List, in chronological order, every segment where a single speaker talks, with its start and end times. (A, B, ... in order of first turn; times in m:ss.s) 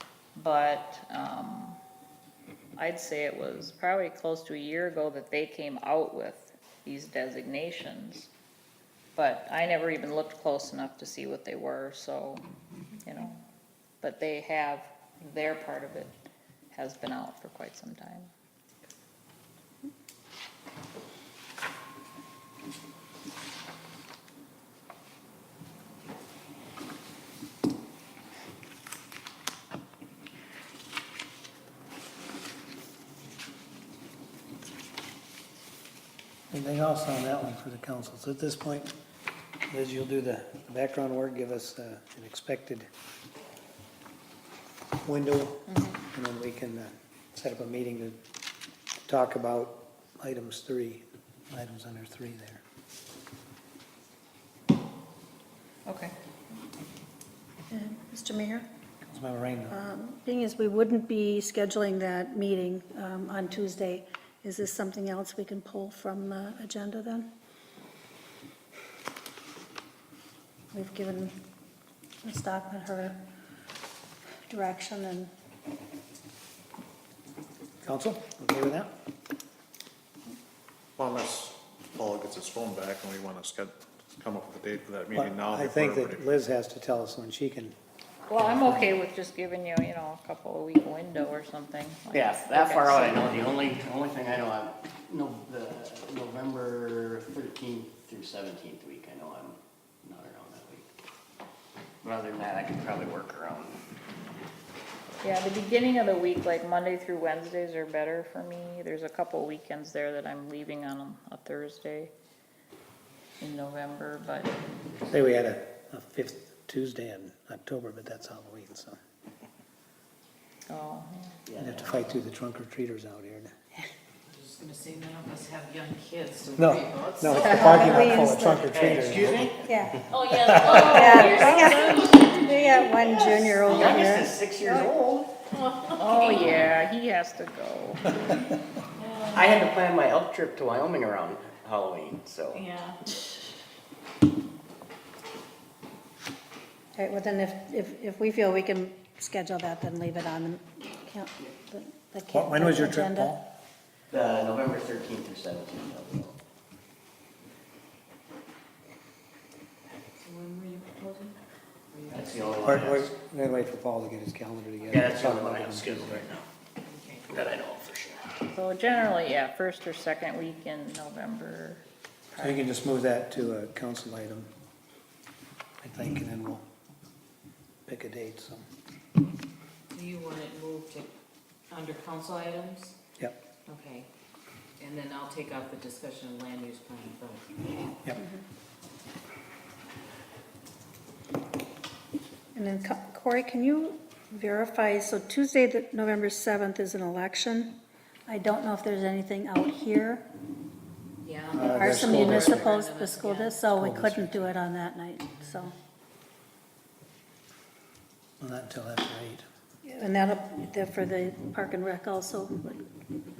0:00.4-0:01.8 A
0:02.8-0:08.3 A
0:09.1-0:12.4 A
0:13.0-0:13.4 A
0:14.0-0:16.1 A
0:16.7-0:18.3 A
0:36.5-0:38.9 B
0:39.7-0:42.9 B
0:45.0-0:48.2 B
0:45.7-0:46.0 A
0:49.1-0:52.6 B
0:55.8-0:56.1 A
0:57.7-0:58.7 C
0:59.0-0:59.8 B
0:59.7-1:07.3 C
1:10.7-1:11.4 C
1:12.2-1:13.2 C
1:14.5-1:15.3 C
1:17.8-1:18.9 B
1:21.0-1:26.2 D
1:25.1-1:27.8 B
1:28.3-1:33.4 A
1:28.4-1:28.8 B
1:32.1-1:40.9 E
1:42.0-1:43.8 E
1:45.2-1:52.1 A
1:53.4-1:54.6 A
1:55.1-1:59.0 B
2:00.7-2:01.4 A
2:01.5-2:02.1 E
2:01.6-2:03.5 B
2:04.3-2:08.3 F
2:06.6-2:09.5 B
2:07.3-2:08.8 C
2:08.7-2:09.7 E
2:09.6-2:10.0 C
2:10.1-2:12.9 F
2:10.3-2:10.8 B
2:10.7-2:12.1 A
2:10.7-2:14.9 C
2:13.0-2:15.3 E
2:16.0-2:18.3 A
2:19.0-2:19.4 F
2:19.3-2:22.7 E
2:22.6-2:22.9 F
2:27.0-2:33.3 C
2:32.3-2:33.5 B
2:34.1-2:36.4 E
2:40.2-2:41.4 F
2:41.9-2:42.8 F
2:42.1-2:43.1 E
2:42.6-2:46.3 B
2:44.9-2:46.4 E
2:46.8-2:47.5 F
2:47.3-2:48.2 E
2:48.5-2:51.8 A
2:52.3-2:52.6 A
2:52.4-2:54.5 B
2:55.8-2:56.6 B
2:57.9-2:58.7 B
2:59.9-3:01.1 F
3:01.7-3:03.0 F
3:03.7-3:04.1 F
3:04.8-3:07.6 F
3:08.2-3:08.4 C
3:12.5-3:17.7 C
3:18.3-3:20.2 C
3:21.2-3:23.7 F
3:21.5-3:22.7 B
3:21.7-3:25.7 C
3:23.7-3:24.5 B
3:28.4-3:29.4 B
3:29.8-3:32.8 C